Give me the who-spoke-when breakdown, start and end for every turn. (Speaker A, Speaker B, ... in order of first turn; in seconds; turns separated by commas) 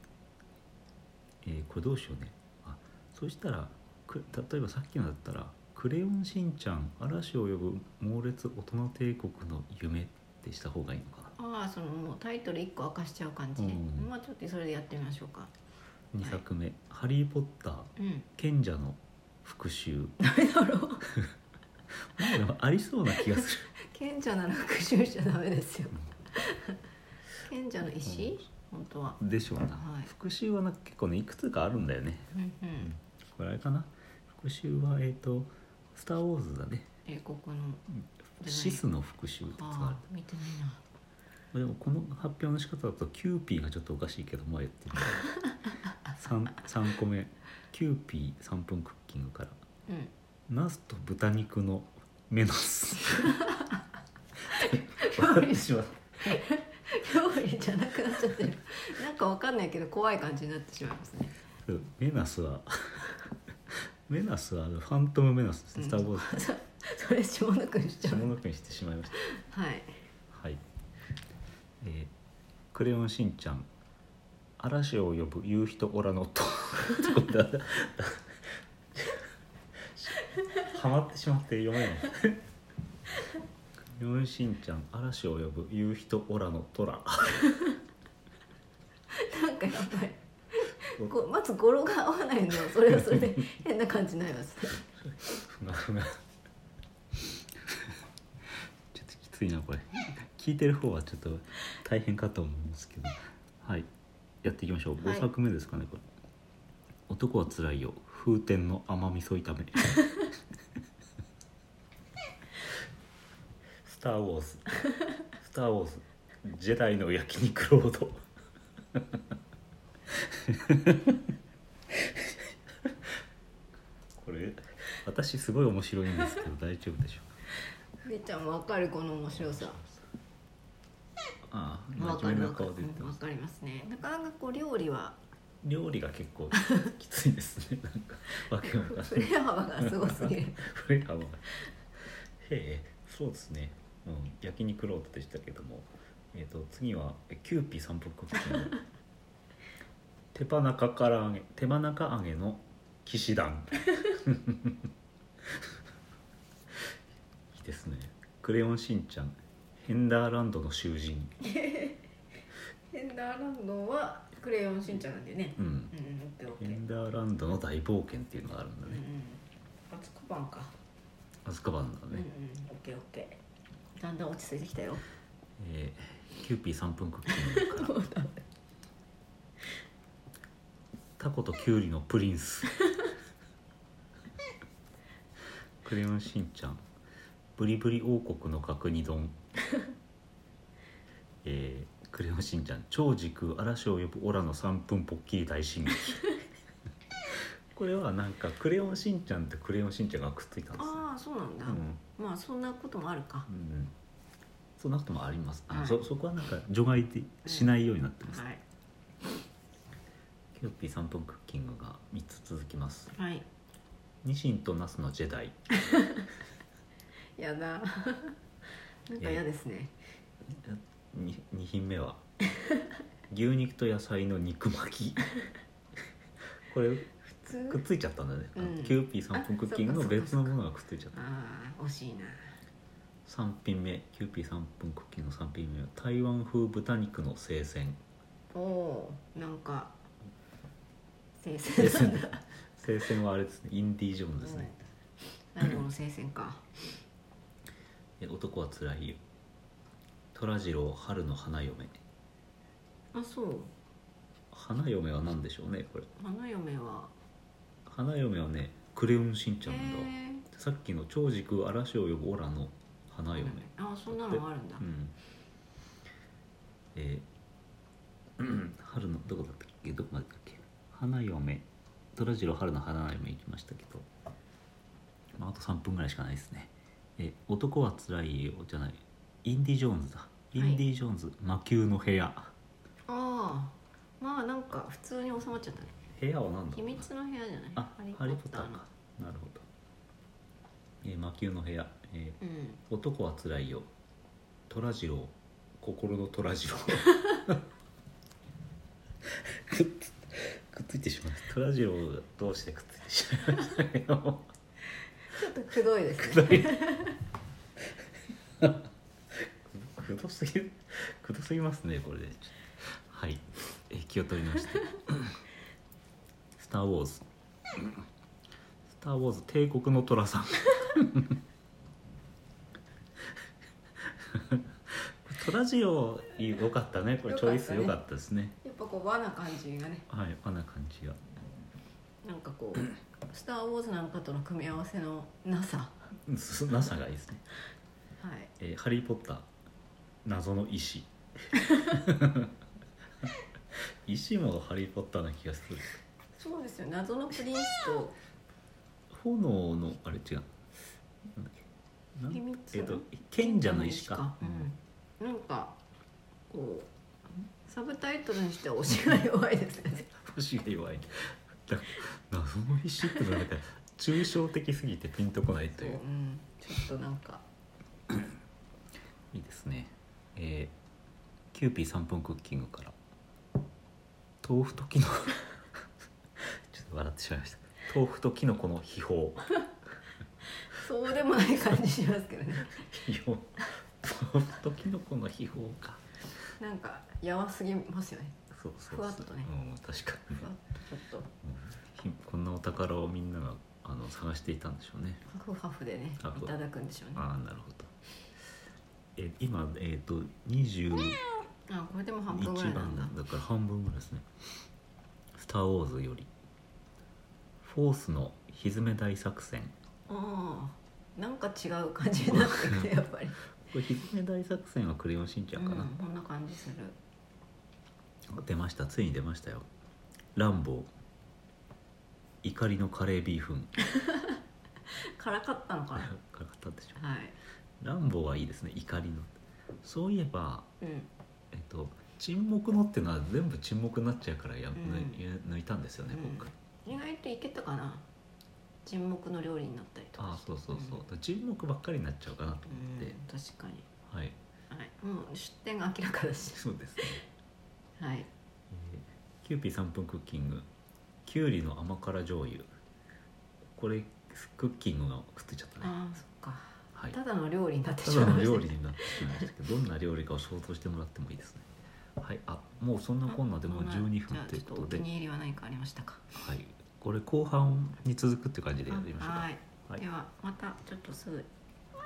Speaker A: 1.4-11.3, Speaker B: 11.4-15.5, Speaker A: 13.6-14.1, Speaker A: 16.1-20.2, Speaker B: 18.0-18.3, Speaker B: 20.2-21.0, Speaker A: 22.2-23.7, Speaker B: 23.2-26.8, Speaker B: 27.4-30.1, Speaker A: 28.0-28.4, Speaker A: 29.2-36.9, Speaker B: 32.3-32.9, Speaker B: 37.0-37.8, Speaker A: 37.9-40.0, Speaker B: 38.4-38.8, Speaker B: 39.5-40.8, Speaker A: 41.5-45.3, Speaker A: 46.1-49.6, Speaker B: 49.9-50.1, Speaker A: 50.5-53.4, Speaker B: 53.2-53.8, Speaker B: 54.5-61.3, Speaker A: 54.6-56.4, Speaker A: 61.6-63.1, Speaker A: 64.1-66.4, Speaker B: 65.8-68.3, Speaker A: 68.0-69.2, Speaker B: 69.2-70.0, Speaker A: 70.3-70.6, Speaker A: 71.8-72.1, Speaker A: 72.7-73.7, Speaker A: 74.6-78.4, Speaker A: 78.9-79.2, Speaker A: 79.9-82.4, Speaker A: 83.9-87.5, Speaker B: 89.1-94.8, Speaker A: 95.0-96.2, Speaker A: 97.7-97.9, Speaker A: 98.9-103.9, Speaker A: 104.4-106.0, Speaker B: 105.0-105.3, Speaker A: 107.1-109.9, Speaker A: 113.8-114.7, Speaker A: 115.4-118.2, Speaker A: 120.3-121.2, Speaker A: 124.2-127.3, Speaker B: 128.0-129.8, Speaker A: 129.3-130.0, Speaker A: 131.5-133.2, Speaker B: 132.0-135.2, Speaker A: 135.6-141.5, Speaker B: 138.6-140.7, Speaker A: 142.4-148.8, Speaker A: 150.3-154.8, Speaker A: 157.5-161.3, Speaker B: 161.4-162.0, Speaker B: 162.9-166.8, Speaker A: 165.6-165.9, Speaker A: 166.6-169.0, Speaker B: 168.9-170.7, Speaker A: 171.4-172.3, Speaker B: 172.1-173.4, Speaker B: 173.9-175.0, Speaker A: 175.6-177.9, Speaker B: 177.3-178.4, Speaker A: 181.2-182.8, Speaker A: 185.8-186.8, Speaker A: 187.6-189.4, Speaker A: 191.4-196.3, Speaker A: 197.7-201.0, Speaker B: 200.8-203.5, Speaker A: 201.7-202.0, Speaker A: 203.5-203.9, Speaker A: 204.8-208.4, Speaker B: 205.7-206.0, Speaker B: 207.5-208.6, Speaker A: 210.5-213.2, Speaker B: 213.2-213.4, Speaker A: 214.2-215.7, Speaker B: 215.8-216.3, Speaker B: 217.4-218.4, Speaker B: 219.1-220.0, Speaker A: 219.2-219.4, Speaker A: 220.5-222.2, Speaker A: 223.3-225.2, Speaker A: 226.7-227.1, Speaker B: 227.2-227.8, Speaker A: 227.7-231.2, Speaker B: 228.6-230.6, Speaker B: 231.1-232.6, Speaker A: 233.3-238.0, Speaker B: 238.5-240.0, Speaker B: 241.4-242.4, Speaker A: 241.7-244.7, Speaker B: 244.4-244.8, Speaker B: 245.5-246.9, Speaker A: 248.2-249.2, Speaker A: 250.3-252.0, Speaker B: 253.1-253.7, Speaker A: 254.5-256.1, Speaker B: 256.2-257.1, Speaker A: 257.9-265.1, Speaker B: 259.6-260.4, Speaker B: 263.4-264.9, Speaker A: 266.9-267.3, Speaker A: 268.4-274.1, Speaker A: 275.4-282.5, Speaker B: 280.6-280.8, Speaker B: 283.1-286.0, Speaker A: 286.1-287.1, Speaker B: 286.7-288.9, Speaker A: 287.8-289.6, Speaker A: 291.0-293.9, Speaker B: 292.4-292.8, Speaker A: 294.7-297.6, Speaker A: 299.3-304.5, Speaker B: 305.3-307.2, Speaker A: 306.3-306.7, Speaker A: 309.4-315.4, Speaker A: 316.6-317.9, Speaker A: 318.9-321.4, Speaker A: 324.2-328.6, Speaker B: 327.2-328.0, Speaker B: 328.6-330.1, Speaker A: 330.1-331.2, Speaker B: 332.2-336.0, Speaker A: 336.3-337.4, Speaker B: 338.2-338.5, Speaker A: 338.6-339.5, Speaker A: 340.2-342.5, Speaker A: 344.1-346.0, Speaker B: 346.4-348.2, Speaker A: 349.1-350.5, Speaker A: 351.3-351.6, Speaker A: 352.2-354.7, Speaker B: 352.3-355.8, Speaker B: 356.5-356.9, Speaker B: 357.6-360.1, Speaker A: 360.1-366.0, Speaker B: 365.7-367.4, Speaker A: 369.3-370.8, Speaker A: 371.5-373.0, Speaker A: 374.4-375.5, Speaker A: 376.4-379.6, Speaker B: 380.6-382.9, Speaker A: 382.8-386.0, Speaker B: 386.6-388.4, Speaker A: 388.5-390.5, Speaker B: 388.9-389.5, Speaker B: 390.4-391.3, Speaker A: 391.4-395.2, Speaker B: 395.3-397.2, Speaker A: 396.2-396.5, Speaker A: 397.1-397.9, Speaker A: 399.2-401.2, Speaker B: 401.7-403.2, Speaker A: 402.3-404.3, Speaker A: 405.4-406.3, Speaker A: 407.6-409.8, Speaker B: 410.1-413.4, Speaker A: 412.2-412.9, Speaker A: 413.6-415.9, Speaker B: 415.6-417.0, Speaker A: 418.3-419.7, Speaker A: 420.4-420.9, Speaker A: 422.4-423.8, Speaker B: 423.9-424.4, Speaker B: 425.2-426.1, Speaker A: 425.9-427.0, Speaker B: 427.0-427.4, Speaker A: 427.8-430.7, Speaker B: 430.8-431.1, Speaker A: 431.5-436.5, Speaker B: 434.8-435.2, Speaker B: 436.1-438.1, Speaker B: 438.9-441.0, Speaker A: 440.2-443.2, Speaker B: 442.7-443.9, Speaker A: 444.1-444.4, Speaker B: 444.7-447.2, Speaker A: 446.5-447.2, Speaker B: 448.0-448.3, Speaker A: 448.7-450.7, Speaker A: 451.2-452.7, Speaker A: 453.7-455.9, Speaker B: 455.8-459.5, Speaker A: 458.0-461.7, Speaker A: 462.2-465.1, Speaker B: 463.3-466.3, Speaker A: 466.3-470.0, Speaker B: 468.9-471.5